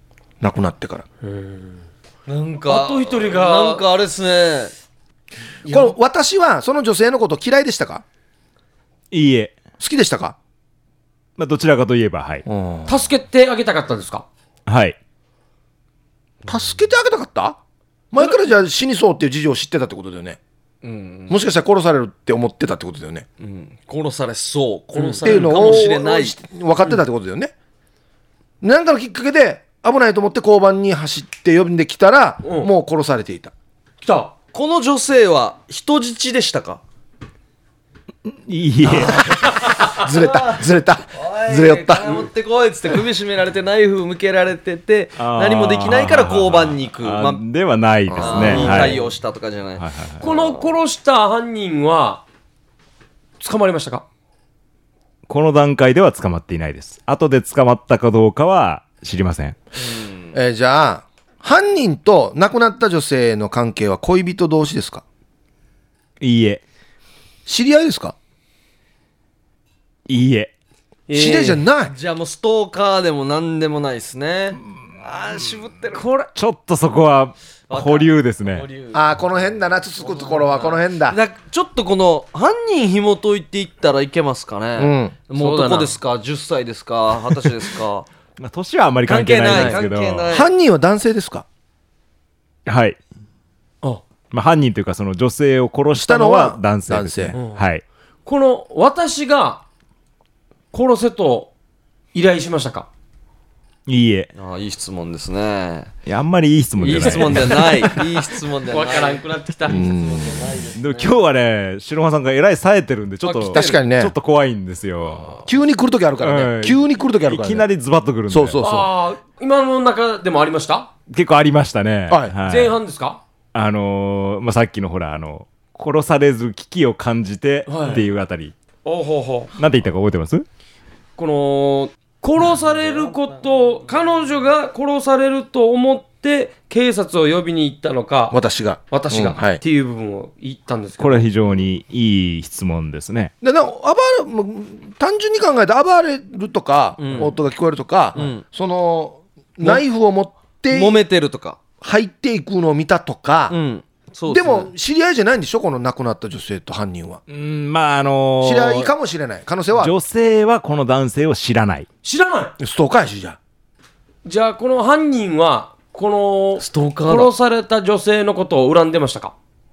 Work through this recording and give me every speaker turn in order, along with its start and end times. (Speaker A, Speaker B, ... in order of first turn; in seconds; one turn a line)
Speaker A: 0.4-1.1
Speaker B: 1.2-1.8
Speaker C: 2.3-4.7
Speaker B: 2.6-3.8
Speaker A: 5.7-8.0
Speaker D: 9.1-9.6
Speaker A: 9.8-10.4
Speaker D: 11.4-12.4
Speaker A: 12.5-13.1
Speaker B: 12.9-14.3
Speaker D: 14.7-15.0
Speaker A: 16.4-17.6
Speaker A: 18.1-20.4
Speaker C: 20.8-21.4
Speaker A: 21.3-23.2
Speaker C: 23.4-26.4
Speaker B: 24.9-25.9
Speaker A: 25.2-27.5
Speaker A: 28.6-33.5
Speaker B: 32.4-32.7
Speaker B: 34.0-34.3
Speaker C: 34.5-36.8
Speaker D: 38.3-39.2
Speaker B: 39.0-39.9
Speaker A: 39.9-42.2
Speaker C: 40.0-40.6
Speaker C: 41.1-47.4
Speaker D: 45.2-49.1
Speaker C: 48.1-50.7
Speaker A: 48.2-48.6
Speaker B: 48.2-49.1
Speaker D: 49.8-50.2
Speaker B: 50.2-52.2
Speaker B: 53.4-54.0
Speaker D: 55.3-59.6
Speaker C: 59.8-60.3
Speaker A: 60.3-65.0
Speaker D: 66.2-66.6
Speaker A: 67.5-68.1
Speaker D: 70.1-70.5
Speaker B: 71.1-71.6
Speaker A: 71.1-71.9
Speaker C: 71.9-76.1
Speaker B: 75.9-76.3
Speaker D: 76.3-78.7
Speaker C: 77.7-79.1
Speaker A: 78.9-81.2
Speaker C: 80.0-88.1
Speaker A: 84.8-85.8
Speaker B: 85.4-85.9
Speaker D: 88.4-90.3
Speaker C: 89.1-90.5
Speaker B: 89.5-89.8
Speaker A: 90.3-91.5
Speaker D: 92.7-93.0
Speaker D: 94.3-97.8
Speaker A: 96.0-97.4
Speaker B: 97.3-97.6
Speaker B: 98.3-99.6
Speaker B: 100.7-101.5
Speaker B: 102.1-102.9
Speaker D: 103.9-104.3
Speaker C: 104.4-105.9
Speaker D: 106.1-108.0
Speaker C: 106.8-111.2
Speaker B: 107.0-107.4
Speaker B: 108.7-109.8
Speaker A: 109.7-110.5
Speaker D: 110.8-115.5
Speaker B: 113.2-113.8
Speaker A: 113.5-114.1
Speaker A: 115.5-117.7
Speaker D: 116.2-118.6
Speaker A: 118.3-118.9
Speaker B: 118.6-120.9
Speaker D: 121.1-122.8
Speaker A: 122.1-122.3
Speaker B: 122.5-123.2
Speaker D: 123.5-128.6
Speaker B: 127.7-128.1
Speaker B: 128.8-129.5
Speaker D: 129.6-130.4
Speaker B: 131.2-138.4
Speaker A: 138.3-139.6
Speaker B: 138.9-141.3
Speaker D: 141.0-143.3
Speaker A: 143.4-151.0
Speaker C: 147.0-147.3
Speaker C: 148.1-148.4
Speaker C: 150.7-151.6
Speaker A: 151.8-153.6
Speaker C: 153.5-154.7
Speaker A: 154.3-157.2
Speaker D: 157.3-158.9
Speaker A: 158.4-159.9
Speaker D: 159.8-161.9
Speaker B: 162.0-162.6
Speaker A: 162.6-163.4
Speaker B: 164.2-169.3
Speaker C: 166.6-167.3